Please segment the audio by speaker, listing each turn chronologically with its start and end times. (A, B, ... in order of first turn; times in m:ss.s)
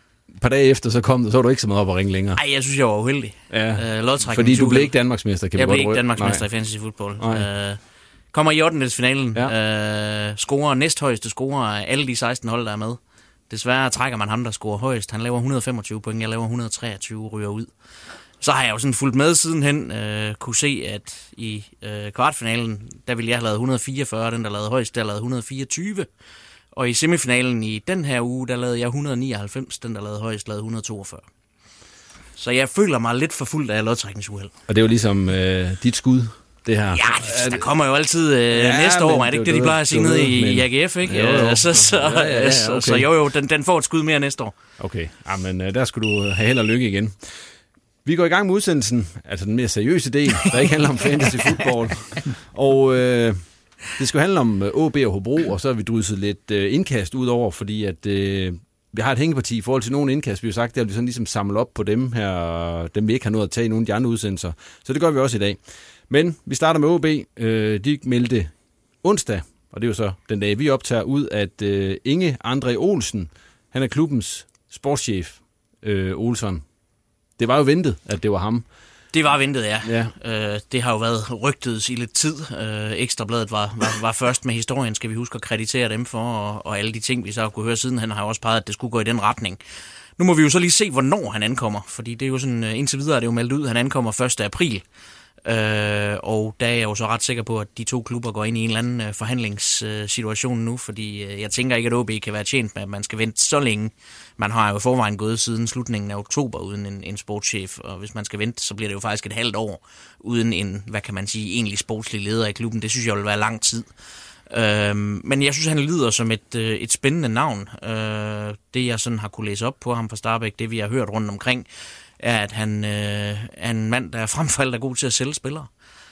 0:00.4-0:02.4 A
0:02.4-0:05.0 B
0:03.5-0:06.4 A
0:05.5-0:07.8 B
0:07.2-0:07.5 A
0:08.3-0:13.0 B
0:13.5-0:17.7 B
0:18.4-0:26.1 B
0:26.7-0:31.2 B
0:32.4-0:34.5 B
0:34.7-0:37.7 A
0:36.9-0:44.5 B
0:38.5-0:43.1 A
0:44.8-0:47.5 A
0:48.0-1:08.5 A
1:09.0-1:16.6 A
1:17.4-1:18.7 A
1:19.1-1:29.6 B
1:19.8-1:20.1 A
1:30.2-1:34.8 B
1:35.4-1:53.9 B
1:54.5-2:01.7 B
2:02.2-2:05.7 B